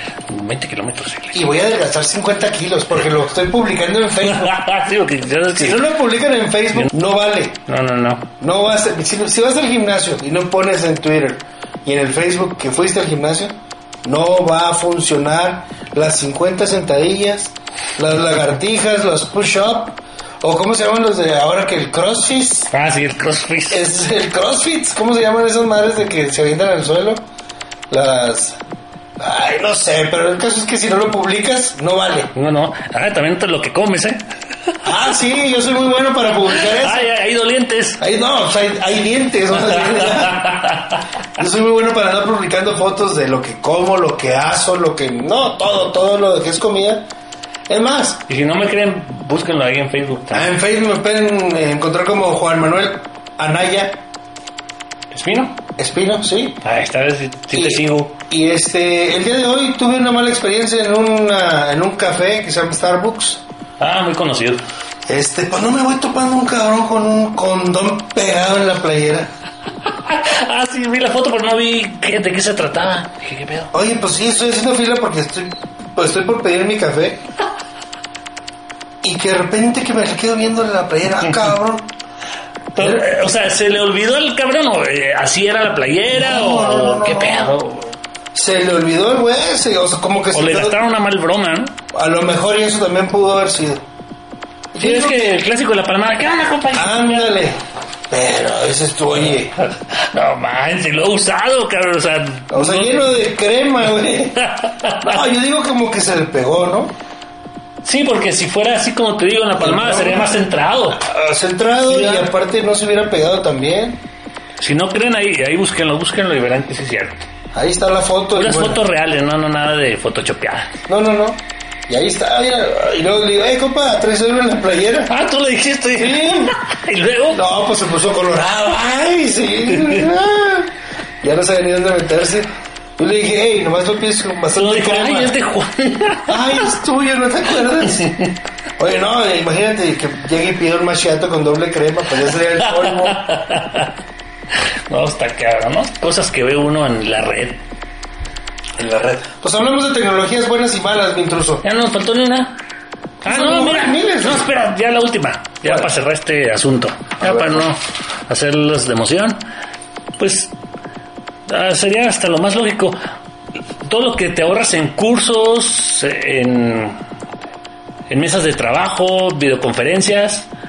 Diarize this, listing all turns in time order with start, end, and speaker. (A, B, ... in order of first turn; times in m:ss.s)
0:00.3-0:01.5 A
0:01.3-0:04.6 B
0:04.2-0:05.9 A
0:05.6-0:07.6 B
0:07.7-0:08.3 A
0:08.4-0:22.7 B
0:22.7-0:23.8 A
0:23.7-0:27.2 B
0:27.9-0:28.6 B
0:29.2-0:32.3 B
0:32.4-0:34.2 A
0:34.8-0:37.1 B
0:36.5-0:38.0 A
0:38.0-0:40.7 B
0:39.5-0:41.0 A
0:41.4-0:47.1 B
0:47.7-0:48.2 B
0:48.3-0:50.5 A
0:50.3-0:54.0 B
0:55.1-0:55.6 A
0:55.8-0:56.6 B
0:56.6-0:58.1 A
0:57.6-1:03.4 B
1:03.8-1:04.6 A
1:05.1-1:09.3 B
1:10.1-1:13.7 A
1:13.7-1:17.2 B
1:19.0-1:21.9 B
1:22.8-1:28.0 A
1:22.8-1:23.1 B
1:26.2-1:27.6 B
1:28.3-1:30.8 B
1:30.3-1:31.8 A
1:31.9-1:33.8 B
1:34.7-1:35.4 B
1:34.8-1:37.4 A
1:36.7-1:37.6 B
1:38.1-1:39.6 B
1:39.2-1:43.1 A
1:42.5-1:44.5 B
1:44.6-1:45.1 A
1:45.0-1:46.9 B
1:47.8-1:51.0 A
1:49.6-1:50.4 B
1:51.0-1:54.0 B
1:51.9-1:52.3 A
1:54.6-1:57.3 A
1:57.5-1:58.8 B
1:58.4-2:00.7 A
2:00.9-2:05.1 B
2:05.1-2:07.4 A
2:06.0-2:06.6 B
2:07.3-2:10.7 B
2:11.2-2:15.4 B
2:14.6-2:16.7 A
2:16.3-2:18.2 B
2:18.8-2:23.2 B
2:22.8-2:23.9 A
2:24.9-2:27.6 A
2:28.8-2:31.6 B
2:31.6-2:32.6 A
2:33.2-2:39.5 A
2:33.3-2:34.5 B
2:37.2-2:37.6 B
2:40.2-2:40.5 A
2:41.5-2:43.0 A
2:43.8-2:47.0 A
2:48.1-2:50.5 A